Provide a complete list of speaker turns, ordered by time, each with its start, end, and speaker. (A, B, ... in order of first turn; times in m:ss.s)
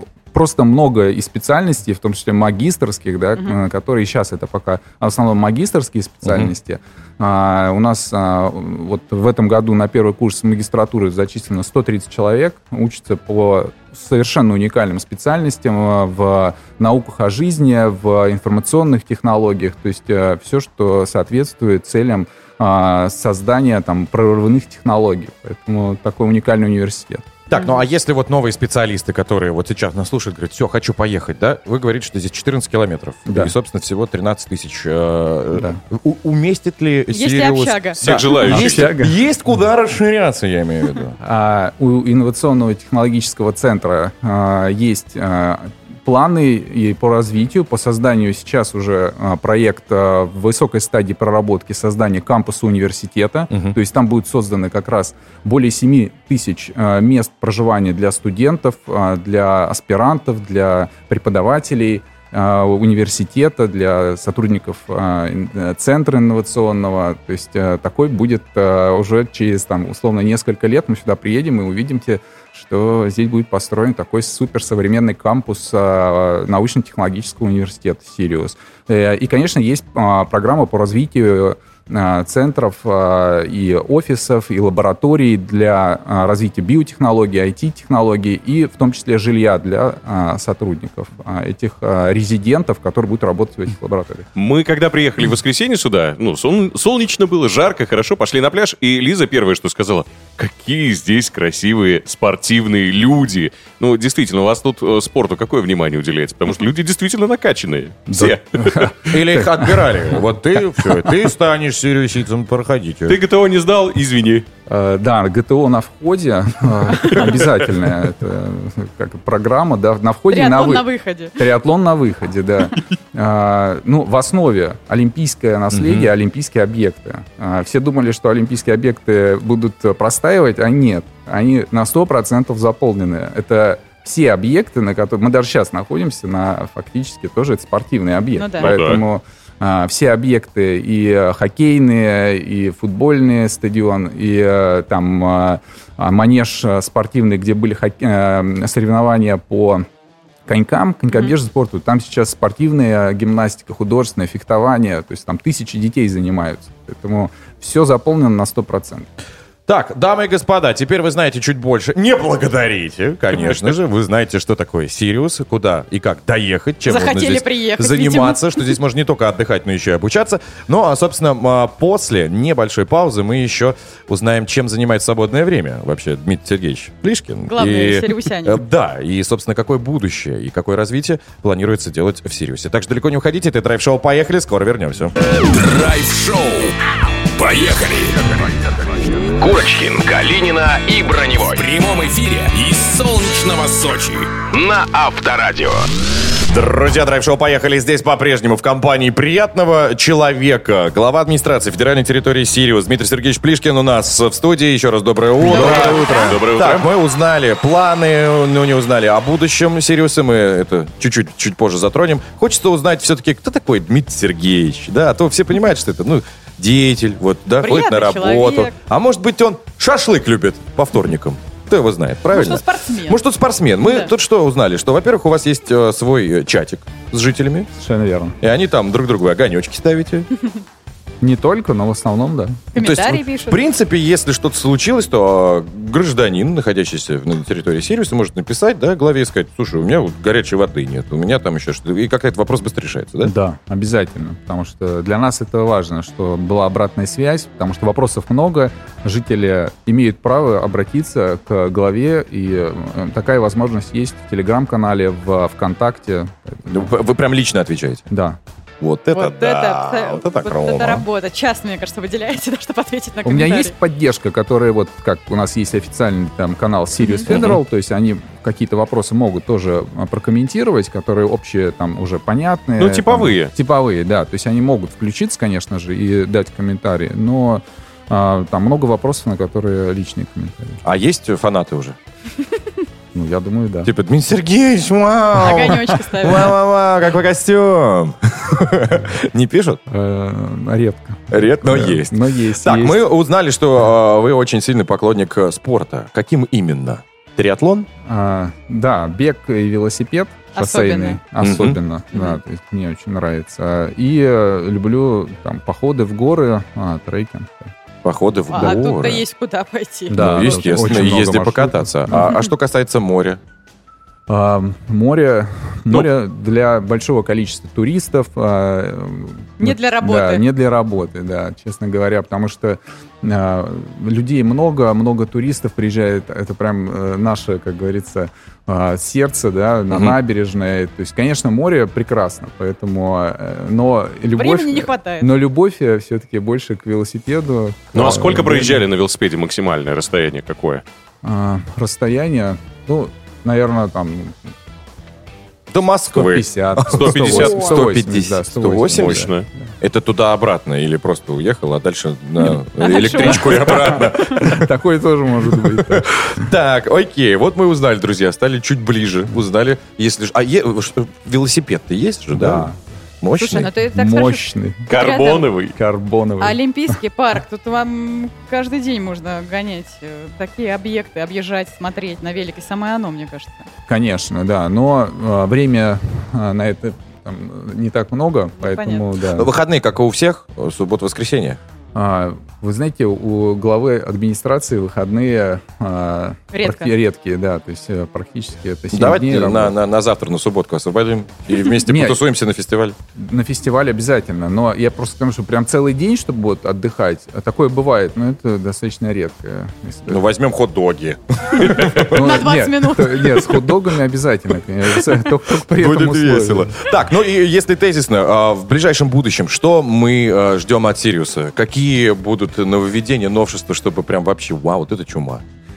0:00.3-0:27.4 A
0:06.2-0:06.5 B
0:27.5-0:41.2 B
0:27.5-0:27.8 C
0:33.3-0:33.5 A
0:35.5-0:35.8 A
0:37.1-0:38.6 C
0:38.0-0:38.9 D
0:38.1-0:39.2 A
0:41.2-1:34.3 A
0:53.5-0:53.8 B
1:34.4-1:48.9 D
1:48.1-1:50.2 A
1:49.1-1:53.2 B
1:53.1-1:54.5 D
1:54.7-2:29.9 A
2:00.3-2:01.3 C
2:05.7-2:06.1 B
2:18.4-2:18.7 C
2:18.6-2:19.0 D
2:30.5-2:39.1 A
2:39.7-3:05.1 B
2:46.9-2:48.7 C
2:57.5-2:58.6 C
3:05.4-3:06.8 E
3:07.4-3:08.4 E
3:09.4-3:15.9 E
3:16.5-3:47.7 B
3:25.4-3:26.3 C
3:25.6-3:25.9 A
3:25.6-3:26.9 D
3:37.6-3:38.7 C
3:42.3-3:43.2 C
3:43.8-3:44.1 C
3:47.8-3:48.4 A
3:48.4-3:50.3 B
3:51.2-3:52.7 A
3:52.7-3:53.6 C
3:52.8-4:03.3 B
4:03.2-4:16.9 A
4:16.7-4:18.1 B
4:18.1-4:18.4 A
4:18.8-4:21.0 B
4:19.1-4:23.7 C
4:23.2-4:40.8 A
4:27.0-4:27.3 C
4:27.3-4:27.6 B
4:32.8-4:33.5 D
4:40.8-4:42.0 B
4:43.1-4:43.9 A
4:43.8-4:49.8 B
4:45.3-4:46.5 C
4:49.9-4:53.0 A
4:51.3-4:57.9 B
4:58.1-5:07.7 A
5:00.6-5:01.2 C
5:01.4-5:01.8 B
5:02.1-5:02.4 C
5:08.0-5:09.2 B
5:08.5-5:11.0 C
5:10.1-5:12.2 A
5:10.1-5:13.4 B
5:12.1-5:12.5 C
5:14.3-5:38.8 A
5:19.6-5:20.4 C
5:34.4-5:35.3 C
5:37.9-5:40.8 D
5:41.2-5:44.5 A
5:45.7-5:49.3 B
5:46.1-5:49.7 A
5:46.9-5:47.8 D
5:48.9-5:49.5 D
5:49.8-5:54.7 B
5:52.8-5:54.5 C
5:53.2-5:56.5 A
5:55.6-6:02.7 B
6:02.3-6:02.8 A
6:03.2-6:03.7 B
6:03.4-6:05.5 C
6:03.9-6:04.9 A
6:04.9-6:05.8 D
6:05.8-6:07.0 A
6:06.4-6:13.7 C
6:13.9-6:19.5 A
6:18.6-6:19.0 C
6:19.3-6:21.6 B
6:21.9-6:29.8 A
6:26.5-6:26.9 C
6:28.9-6:33.0 B
6:31.8-6:32.2 A
6:33.2-6:40.2 A
6:40.1-6:42.2 B
6:41.6-6:46.8 A
6:42.1-6:43.6 C
6:45.1-6:55.4 B